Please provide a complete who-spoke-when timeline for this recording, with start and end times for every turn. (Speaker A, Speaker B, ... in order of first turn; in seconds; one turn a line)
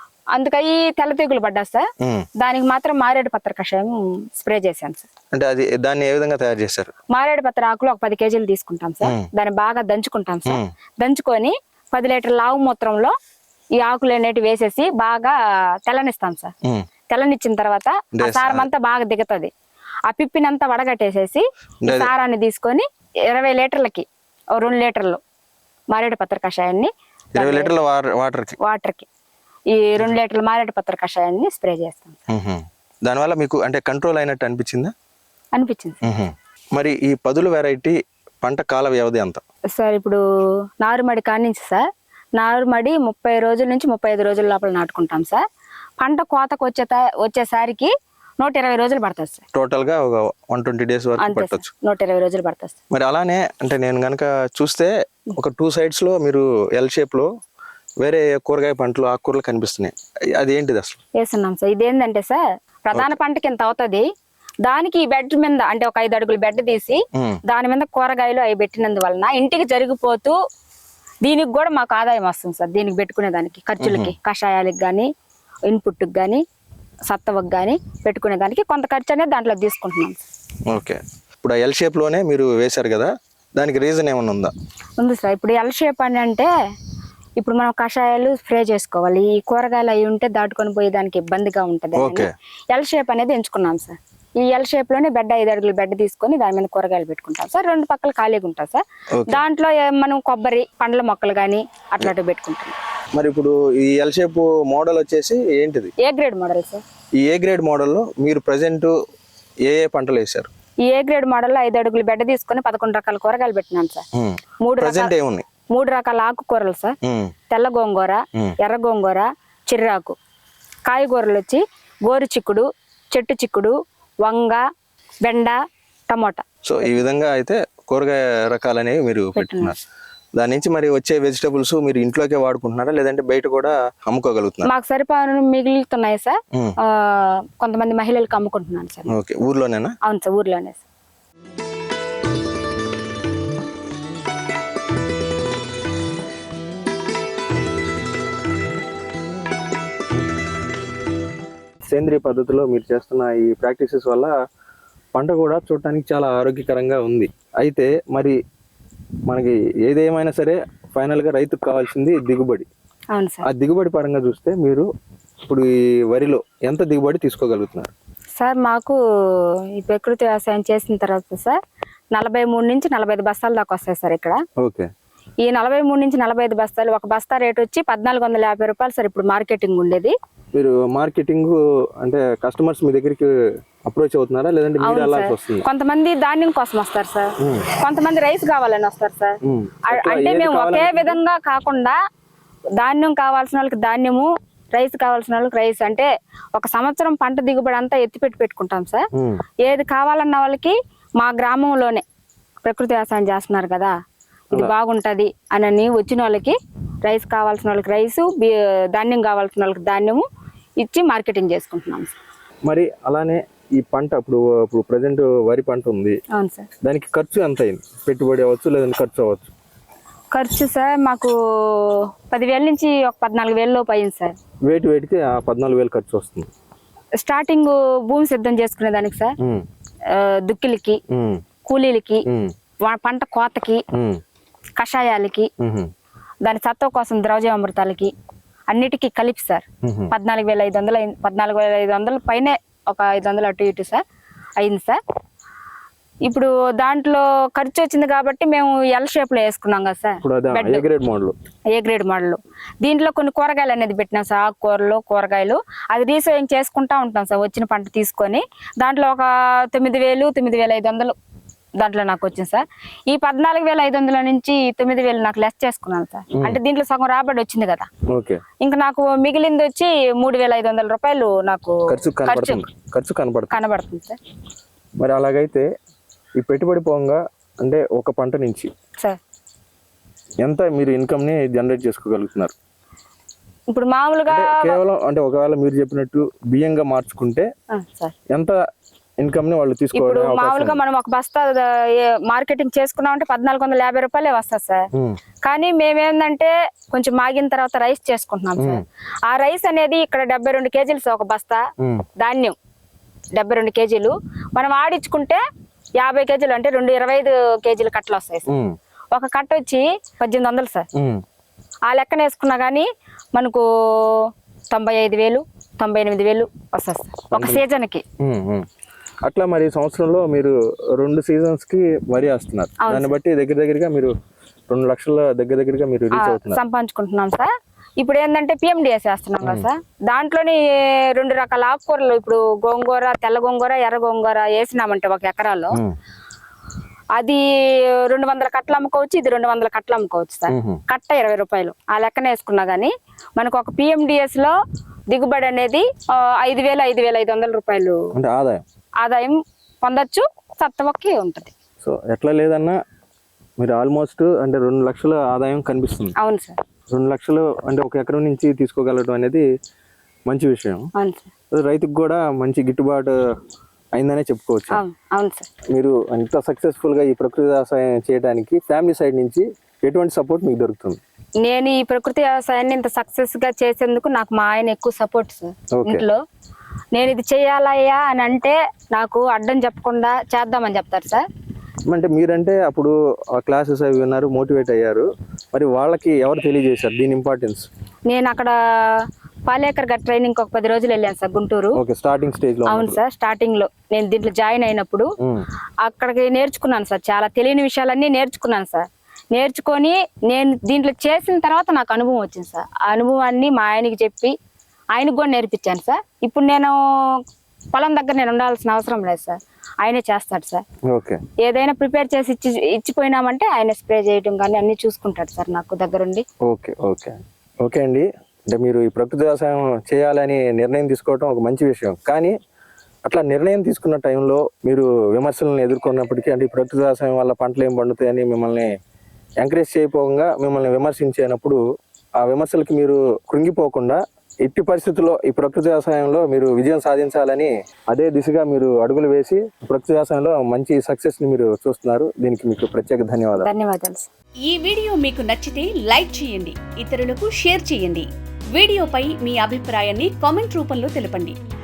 Speaker A: 0.3-1.9
Speaker B: 2.0-2.3
Speaker A: 2.4-5.1
Speaker B: 5.3-6.9
Speaker A: 7.1-13.1
Speaker B: 9.0-9.3
Speaker A: 13.8-15.3
Speaker A: 15.9-16.5
Speaker A: 17.1-19.5
Speaker B: 18.2-18.7
Speaker A: 20.1-25.2
Speaker B: 21.8-22.1
Speaker A: 25.9-27.7
Speaker B: 27.4-28.6
Speaker A: 28.6-29.1
Speaker A: 29.7-32.2
Speaker B: 32.3-34.9
Speaker A: 35.5-36.0
Speaker B: 36.0-39.4
Speaker A: 39.8-40.2
Speaker A: 40.8-41.8
Speaker A: 42.4-45.4
Speaker A: 46.0-49.4
Speaker B: 49.5-51.7
Speaker A: 51.2-52.8
Speaker B: 52.9-57.3
Speaker B: 58.0-61.0
Speaker A: 61.2-64.1
Speaker A: 64.7-70.3
Speaker B: 67.2-67.4
Speaker A: 71.2-75.1
Speaker B: 73.8-74.1
Speaker A: 75.7-76.4
Speaker A: 77.1-80.2
Speaker B: 80.7-84.5
Speaker A: 85.0-86.5
Speaker A: 87.4-102.8
Speaker B: 92.0-92.3
Speaker B: 99.2-99.4
Speaker B: 103.1-105.9
Speaker A: 106.0-106.8
Speaker B: 107.2-108.9
Speaker B: 109.7-110.5
Speaker A: 110.8-114.0
Speaker B: 114.1-115.5
Speaker A: 114.6-115.1
Speaker A: 115.7-117.0
Speaker B: 117.0-117.3
Speaker A: 117.5-120.2
Speaker A: 120.9-124.6
Speaker A: 125.2-125.6
Speaker A: 126.1-126.4
Speaker B: 126.6-129.8
Speaker A: 129.4-129.8
Speaker B: 130.4-134.7
Speaker A: 134.6-139.1
Speaker B: 139.1-139.9
Speaker A: 140.0-140.8
Speaker B: 151.9-154.3
Speaker B: 155.2-158.4
Speaker B: 159.3-162.7
Speaker A: 163.1-163.5
Speaker B: 163.5-164.9
Speaker B: 165.5-167.9
Speaker A: 168.4-169.0
Speaker A: 169.8-171.6
Speaker A: 172.1-174.4
Speaker B: 174.6-174.9
Speaker A: 175.4-180.1
Speaker B: 180.5-183.3
Speaker B: 183.9-185.6
Speaker A: 184.8-189.3
Speaker B: 187.4-187.7
Speaker B: 189.4-191.2
Speaker A: 189.9-192.0
Speaker A: 192.8-199.0
Speaker B: 199.2-199.4
Speaker A: 199.6-202.0
Speaker A: 202.7-203.9
Speaker A: 204.5-210.2
Speaker A: 210.8-212.2
Speaker B: 212.7-216.2
Speaker A: 216.3-216.7
Speaker B: 216.8-219.5
Speaker A: 220.3-224.3
Speaker B: 224.7-226.5
Speaker A: 227.2-229.3
Speaker A: 230.1-231.0
Speaker B: 231.1-231.4
Speaker A: 231.7-232.2
Speaker B: 232.3-232.5
Speaker A: 232.8-233.8
Speaker B: 233.9-234.2
Speaker A: 234.8-235.5
Speaker B: 235.6-235.9
Speaker A: 236.4-238.1
Speaker A: 238.7-244.0
Speaker B: 239.8-240.1
Speaker A: 244.6-245.0
Speaker A: 246.3-250.9
Speaker B: 250.2-251.3
Speaker A: 251.7-261.1
Speaker A: 261.8-267.9
Speaker B: 266.3-266.6
Speaker B: 268.1-268.4
Speaker A: 268.6-272.6
Speaker B: 271.9-273.6
Speaker A: 273.5-274.2
Speaker B: 275.0-275.7
Speaker B: 276.4-278.7
Speaker B: 280.4-282.5
Speaker A: 283.7-284.8
Speaker B: 284.3-287.5
Speaker A: 287.7-288.1
Speaker B: 288.3-288.6
Speaker B: 289.2-290.8
Speaker A: 289.9-294.9
Speaker A: 295.4-301.6
Speaker B: 298.6-298.8
Speaker B: 301.8-302.1
Speaker A: 302.2-302.6
Speaker A: 303.4-305.4
Speaker A: 306.0-308.5
Speaker B: 308.5-308.8
Speaker A: 309.1-310.9
Speaker B: 311.0-311.2
Speaker A: 311.9-318.0
Speaker B: 317.3-317.6
Speaker B: 318.2-318.7
Speaker B: 319.2-324.1
Speaker A: 322.8-323.2
Speaker B: 324.7-326.6
Speaker A: 326.1-330.6
Speaker B: 329.4-329.7
Speaker A: 331.1-335.8
Speaker A: 337.1-344.6
Speaker B: 340.5-340.8
Speaker A: 345.1-348.0
Speaker B: 348.1-348.6
Speaker A: 349.0-351.5
Speaker B: 351.8-352.8
Speaker B: 353.6-356.1
Speaker A: 356.2-356.6
Speaker B: 356.9-359.4
Speaker B: 360.3-360.9
Speaker A: 361.0-361.3
Speaker B: 361.5-363.1
Speaker B: 363.9-364.8
Speaker A: 364.7-365.5
Speaker B: 365.7-371.0
Speaker A: 371.4-376.2
Speaker B: 375.7-376.1
Speaker A: 376.9-381.2
Speaker B: 381.9-387.7
Speaker A: 388.1-388.5
Speaker A: 389.5-391.8
Speaker B: 391.8-393.0
Speaker A: 392.7-395.1
Speaker A: 395.8-404.3
Speaker A: 404.9-406.8
Speaker A: 407.7-410.6
Speaker B: 410.9-411.2
Speaker A: 411.4-416.2
Speaker B: 416.5-422.3
Speaker B: 423.1-428.7
Speaker B: 429.4-431.6
Speaker B: 432.2-443.5
Speaker A: 443.4-444.1
Speaker C: 444.4-451.4